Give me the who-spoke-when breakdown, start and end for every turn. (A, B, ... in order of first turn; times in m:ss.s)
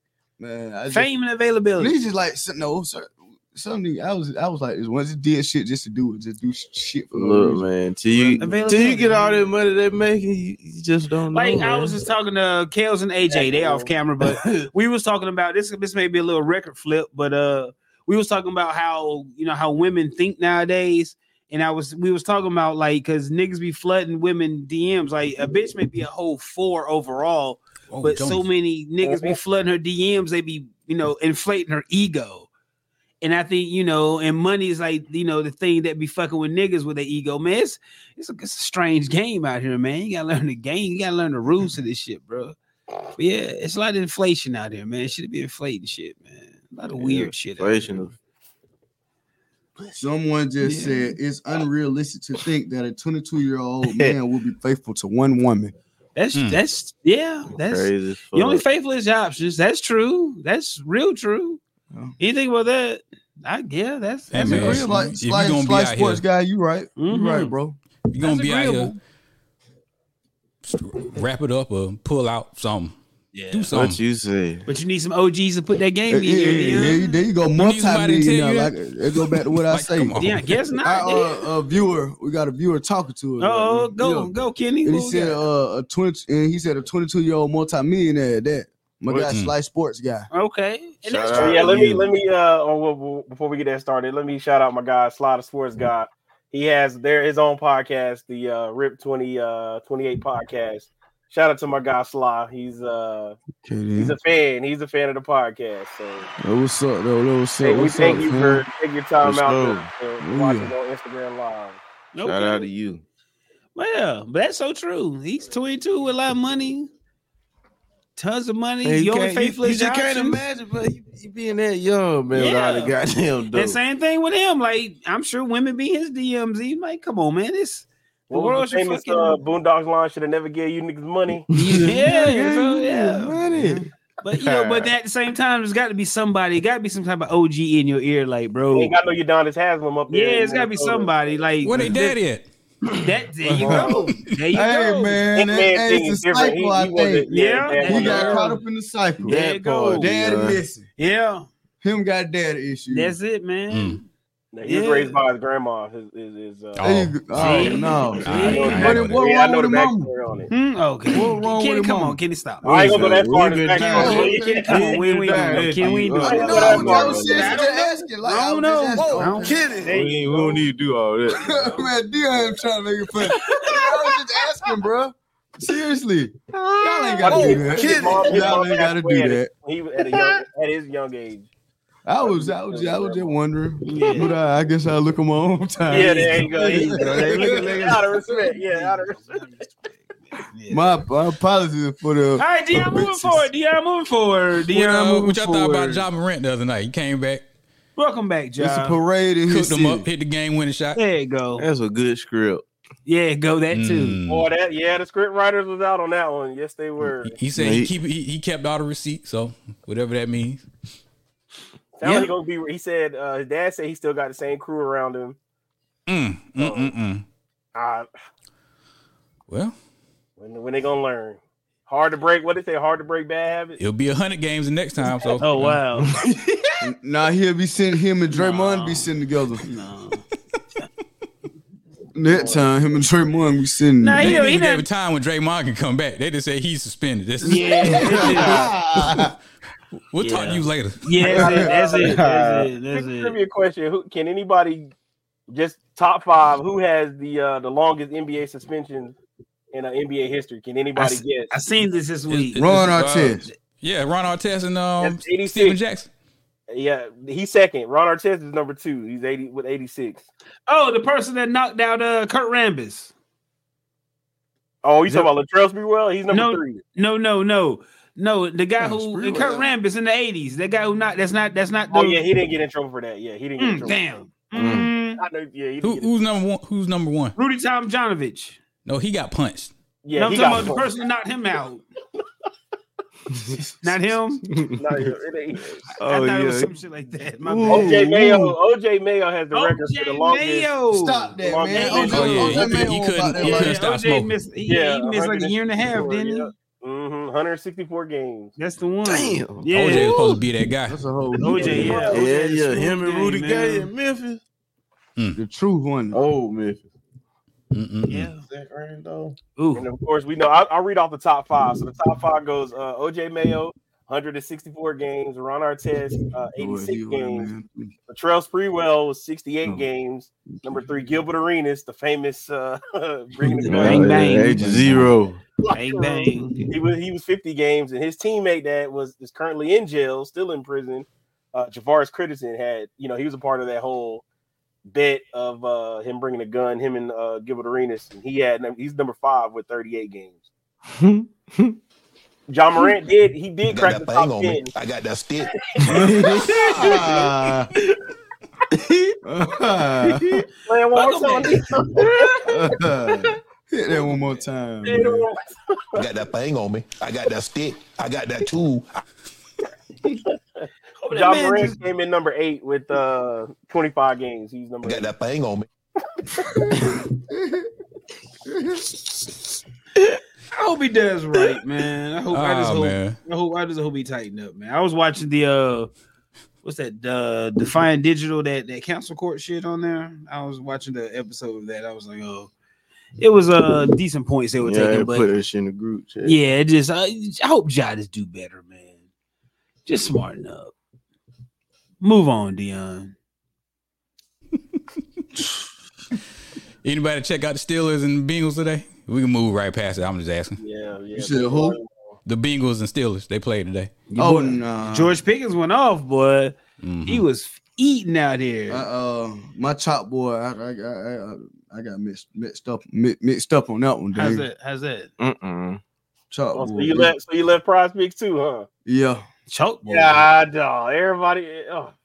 0:00.4-0:01.1 A
0:00.9-0:02.0 B
0:01.8-0:08.7 A
0:07.1-0:12.0 C
0:08.4-0:09.5 B
0:11.3-0:32.5 B
0:13.3-0:13.9 D
0:27.9-0:28.4 E
0:29.0-0:29.4 D
0:33.2-0:42.6 B
0:43.2-0:48.1 B
0:47.0-0:48.1 C
0:50.0-0:55.7 A
0:50.6-0:51.2 B
0:53.9-0:54.2 C
0:56.2-1:01.6 B
0:56.4-0:56.6 E
0:57.5-0:58.6 C
1:02.2-1:04.9 B
1:04.3-1:06.2 E
1:04.4-1:07.8 A
1:07.0-1:07.5 B
1:08.1-1:09.0 E
1:08.2-1:09.0 B
1:10.6-1:13.0 E
1:13.3-1:13.7 B
1:13.5-1:14.0 E
1:13.7-1:14.6 C
1:14.7-1:17.1 B
1:16.1-1:20.2 A
1:17.5-1:20.6 E
1:20.2-1:21.5 B
1:20.8-1:24.3 A
1:23.4-1:25.4 B
1:24.8-1:30.3 A
1:29.3-1:29.5 E
1:30.3-1:32.0 B
1:31.0-1:32.0 C
1:31.4-1:43.4 D
1:43.6-1:44.2 A
1:44.0-1:46.3 D
1:46.4-1:48.6 A
1:47.6-1:51.8 D
1:49.2-1:49.9 C
1:50.2-1:50.7 A
1:52.1-1:52.7 B
1:52.2-1:53.0 C
1:53.8-1:56.9 B
1:58.2-2:00.4 B
1:58.8-2:03.8 C
2:02.3-2:03.0 B
2:03.5-2:09.4 B
2:08.3-2:11.5 D
2:11.5-2:12.0 C
2:11.5-2:13.4 B
2:12.0-2:13.9 A
2:13.3-2:14.9 C
2:14.2-2:18.9 B
2:18.7-2:21.4 D
2:20.1-2:22.2 B
2:21.6-2:22.5 E
2:23.0-2:25.3 B
2:23.6-2:24.0 A
2:23.6-2:23.9 D
2:24.5-2:27.3 A
2:25.4-2:28.5 D
2:27.3-2:28.6 B
2:27.8-2:29.4 A
2:29.2-2:30.6 C
2:29.2-2:30.1 B
2:30.0-2:30.9 A
2:31.0-2:31.5 B
2:31.8-2:33.2 A
2:32.9-2:34.0 B
2:33.7-2:34.0 E
2:34.5-2:36.8 D
2:34.6-2:35.2 B
2:36.8-2:39.2 E
2:36.8-2:40.1 A
2:37.4-2:38.9 B
2:38.3-2:40.5 D
2:40.5-2:43.2 B
2:41.1-2:42.2 A
2:42.6-2:44.9 D
2:42.6-2:47.6 C
2:43.8-2:50.6 B
2:43.9-2:49.6 A
2:46.2-2:47.6 D
2:49.1-2:51.7 C
2:51.3-2:59.5 A
2:53.3-2:53.9 B
2:56.5-2:58.6 C
2:57.2-3:01.5 D
2:57.4-2:57.7 B
3:02.1-3:08.2 A
3:02.2-3:03.4 D
3:03.8-3:04.4 B
3:05.9-3:09.4 D
3:05.9-3:11.0 B
3:06.9-3:08.0 C
3:10.7-3:13.5 A
3:12.4-3:16.0 B
3:14.7-3:17.4 E
3:18.0-3:19.0 B
3:18.6-3:20.1 A
3:19.5-3:21.0 E
3:21.0-3:21.6 B
3:21.6-3:22.6 C
3:23.1-3:24.2 B
3:23.7-3:24.5 E
3:24.3-3:27.4 D
3:27.2-3:30.6 E
3:27.5-3:27.9 C
3:32.0-3:35.4 D
3:36.1-3:37.2 E
3:36.6-3:36.9 D
3:37.8-3:38.1 D
3:39.5-3:39.8 E
3:40.4-3:43.8 D
3:43.8-3:45.8 E
3:45.4-3:46.6 B
3:46.8-3:49.7 A
3:48.3-3:49.1 B
3:49.7-3:50.2 B
3:52.2-3:54.4 A
3:52.3-3:52.7 D
3:54.0-3:54.9 B
3:54.2-3:58.6 E
3:57.4-3:59.3 A
3:57.4-3:58.7 B
4:00.1-4:01.0 E
4:00.2-4:03.4 B
4:01.2-4:02.2 D
4:01.3-4:01.7 A
4:02.0-4:02.7 C
4:02.9-4:04.9 D
4:05.5-4:09.2 D
4:09.7-4:11.5 D
4:11.5-4:12.7 B
4:12.3-4:16.1 E
4:12.6-4:13.4 A
4:15.0-4:15.8 D
4:16.7-4:20.3 D
4:20.7-4:23.1 B
4:24.8-4:26.8 D
4:26.3-4:32.2 B
4:28.8-4:29.7 A
4:31.9-4:34.0 D
4:33.6-4:35.2 B
4:34.6-4:34.9 C
4:35.2-4:36.1 D
4:35.8-4:37.4 E
4:37.4-4:38.6 B
4:38.9-4:39.7 E
4:40.0-4:41.0 D
4:40.2-4:41.8 B
4:43.8-4:44.4 B
4:44.7-4:45.9 D
4:46.0-4:46.8 C
4:46.0-4:48.0 B
4:47.4-4:48.5 C
4:47.7-4:50.7 D
4:49.5-4:52.6 B
4:50.9-4:53.8 A
4:51.4-4:52.8 D
4:52.1-4:54.3 E
4:53.4-4:56.5 B
4:54.7-4:58.5 D
4:58.6-5:00.2 B
4:59.0-5:00.4 C
4:59.7-5:01.0 E
5:00.9-5:02.1 A
5:01.4-5:03.9 B
5:01.6-5:02.2 D
5:01.6-5:04.4 C
5:05.4-5:06.2 A
5:06.1-5:06.9 C
5:07.7-5:08.3 E
5:08.1-5:08.4 B
5:08.5-5:09.3 C
5:09.6-5:09.8 B
5:09.7-5:17.5 D
5:16.6-5:17.9 A
5:18.1-5:24.3 D
5:23.5-5:25.1 A
5:23.6-5:25.4 C
5:23.8-5:24.7 B
5:25.7-5:26.7 B
5:25.8-5:34.2 D
5:34.9-5:40.4 D
5:40.9-5:41.8 C
5:42.5-5:44.7 D
5:43.7-5:45.5 F
5:45.6-5:46.9 D
5:45.8-5:47.3 C
5:46.5-5:47.7 A
5:48.8-5:49.2 C
5:49.2-5:50.4 A
5:50.6-5:52.4 D
5:50.9-5:52.2 B
5:52.1-5:52.3 C
5:52.4-5:55.3 A
5:54.8-5:55.9 D
5:56.0-5:58.9 F
6:00.6-6:05.1 D
6:01.0-6:01.8 B
6:04.8-6:05.7 F
6:07.3-6:07.7 A
6:08.5-6:08.9 A
6:10.5-6:15.9 B
6:12.3-6:13.2 E
6:16.6-6:22.5 B
6:23.2-6:25.3 B
6:24.6-6:26.4 C
6:26.2-6:28.9 B
6:29.9-6:30.7 B
6:32.0-6:33.1 B
6:36.8-6:40.6 E
6:40.6-6:42.2 D
6:41.2-6:41.8 A
6:42.3-6:43.9 E
6:44.1-6:48.8 B
6:44.2-6:45.2 A
6:46.8-6:47.2 E
6:48.7-6:54.5 A
6:54.2-6:55.1 B
6:55.2-6:55.8 C
6:56.3-6:57.2 A
6:56.6-6:58.7 D
6:58.8-6:59.2 A
6:59.5-7:00.2 B
6:59.9-7:01.9 D